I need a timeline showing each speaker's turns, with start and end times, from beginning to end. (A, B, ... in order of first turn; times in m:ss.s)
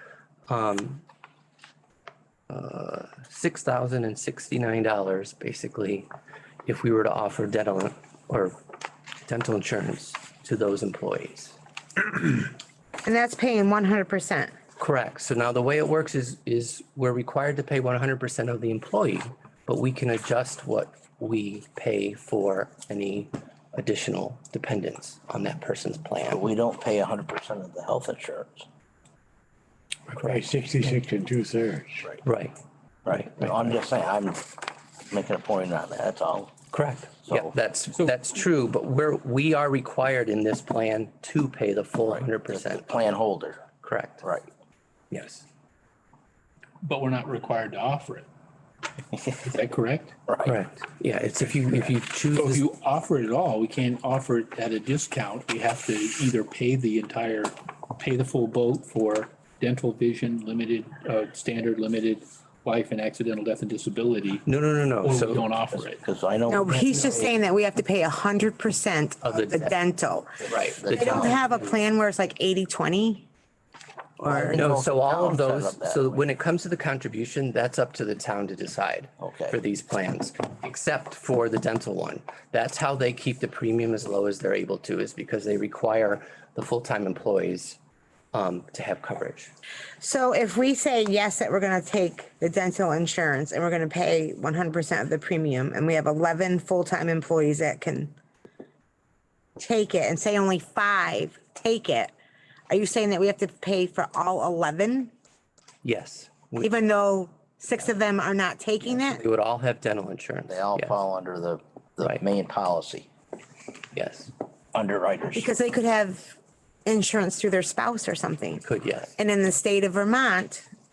0:00.5-0:01.0 A
0:02.5-0:06.1 A
0:06.6-0:08.6 A
0:09.2-0:11.6 A
0:13.0-0:14.5 B
0:14.8-0:26.4 A
0:26.3-0:28.7 C
0:30.1-0:32.1 D
0:30.1-0:30.4 A
0:32.2-0:32.6 A
0:33.0-0:36.5 C
0:33.1-0:33.7 A
0:36.7-0:43.2 A
0:37.2-0:37.5 C
0:42.0-0:43.6 C
0:43.8-0:44.3 A
0:44.2-0:44.5 C
0:45.1-0:45.4 A
0:46.8-0:48.3 E
0:49.4-0:50.5 E
0:50.3-0:50.5 C
0:50.4-0:52.6 A
0:52.3-1:04.4 E
1:04.4-1:05.5 A
1:05.0-1:06.0 E
1:05.7-1:07.3 C
1:06.5-1:13.2 B
1:09.2-1:09.8 A
1:10.4-1:11.4 A
1:10.6-1:11.5 C
1:14.2-1:14.6 B
1:14.3-1:16.2 C
1:14.4-1:27.8 A
1:19.2-1:19.6 C
1:28.3-1:29.5 A
1:30.0-1:38.1 B
1:39.6-1:42.1 B
1:42.7-1:45.1 B
1:45.8-1:46.7 A
1:46.6-1:49.2 B
1:48.9-1:51.0 A
1:50.4-1:53.1 C
1:53.9-1:54.3 A
1:54.7-1:55.5 C
1:55.3-1:56.3 B
1:56.8-1:58.6 B
1:58.6-1:59.1 A
1:59.2-2:00.6 B